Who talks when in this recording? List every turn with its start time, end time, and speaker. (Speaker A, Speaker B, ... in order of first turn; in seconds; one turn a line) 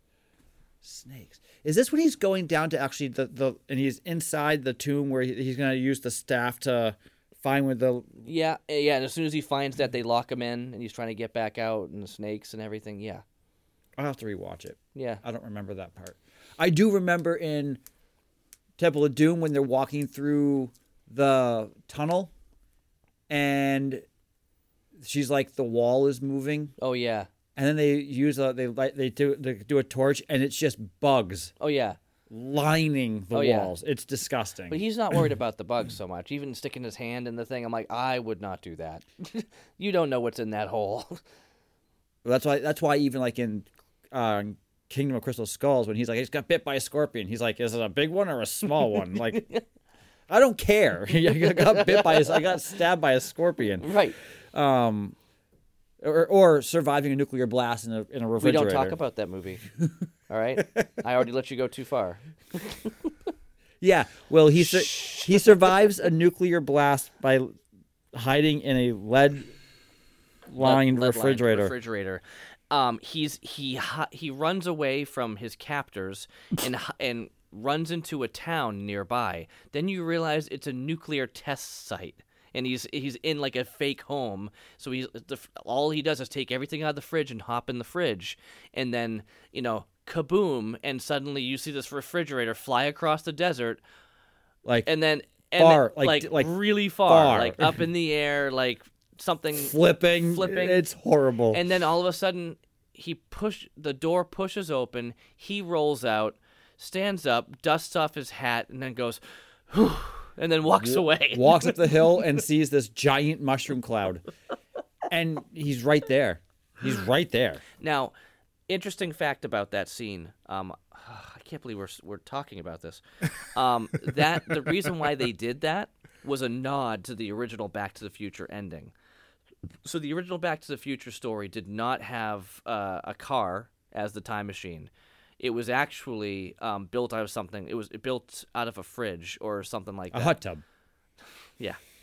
Speaker A: 0.8-8.2
Speaker B: 8.2-13.2
Speaker A: 14.0-17.8
Speaker B: 14.9-15.2
Speaker A: 18.8-22.3
Speaker A: 23.3-24.0
Speaker A: 25.0-26.7
Speaker B: 26.8-27.3
Speaker A: 27.6-31.5
Speaker B: 31.6-32.0
Speaker A: 32.3-34.8
Speaker B: 33.3-33.7
Speaker B: 34.7-41.2
Speaker A: 42.2-49.4
Speaker B: 49.1-49.6
Speaker A: 50.3-53.9
Speaker B: 51.2-52.6
Speaker B: 53.8-54.1
Speaker A: 54.5-55.1
Speaker A: 56.0-59.0
Speaker B: 58.4-59.6
Speaker B: 60.3-63.1
Speaker A: 60.6-60.9
Speaker A: 63.8-67.6
Speaker B: 64.6-65.7
Speaker A: 68.1-69.5
Speaker A: 70.5-71.7
Speaker B: 70.6-93.8
Speaker A: 94.6-94.9
Speaker B: 94.8-100.8
Speaker A: 95.6-97.8
Speaker A: 99.5-101.6
Speaker B: 101.5-111.9
Speaker A: 110.8-114.2
Speaker A: 115.1-117.6
Speaker B: 117.8-118.1
Speaker B: 118.7-128.9
Speaker B: 129.8-140.4
Speaker A: 140.1-140.6